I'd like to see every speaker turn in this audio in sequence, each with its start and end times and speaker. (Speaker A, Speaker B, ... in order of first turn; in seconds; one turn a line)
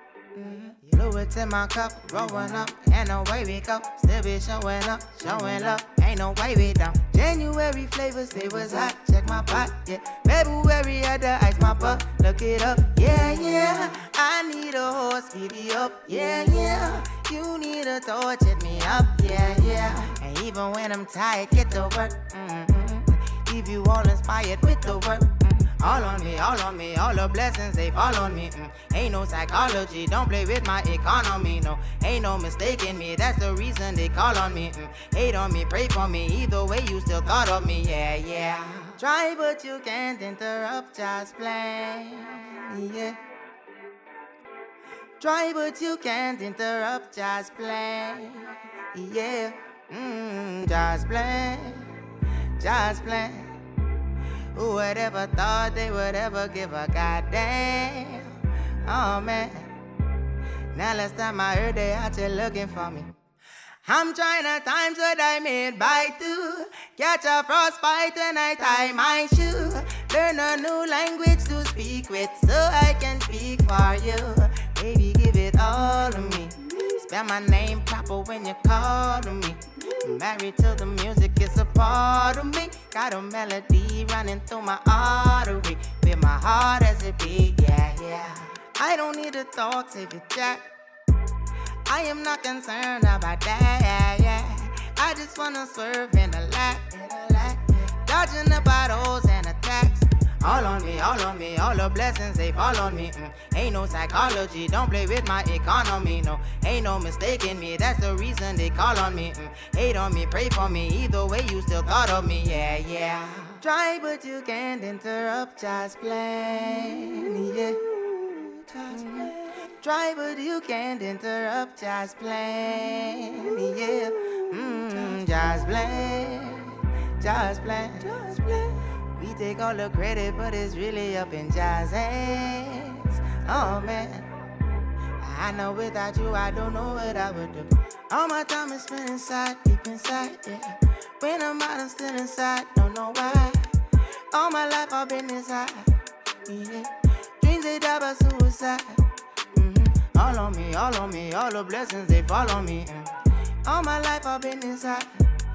Speaker A: 0.3-43.2
Speaker A: 45.2-51.9
Speaker A: 52.6-53.5
Speaker A: 54.5-58.3
Speaker A: 58.9-59.7
Speaker A: 60.7-63.1
Speaker A: 63.9-90.7
Speaker A: 91.9-134.3
Speaker A: 135.2-143.7
Speaker A: 144.3-145.9
Speaker A: 146.4-149.0
Speaker A: 149.5-153.1
Speaker A: 153.6-155.1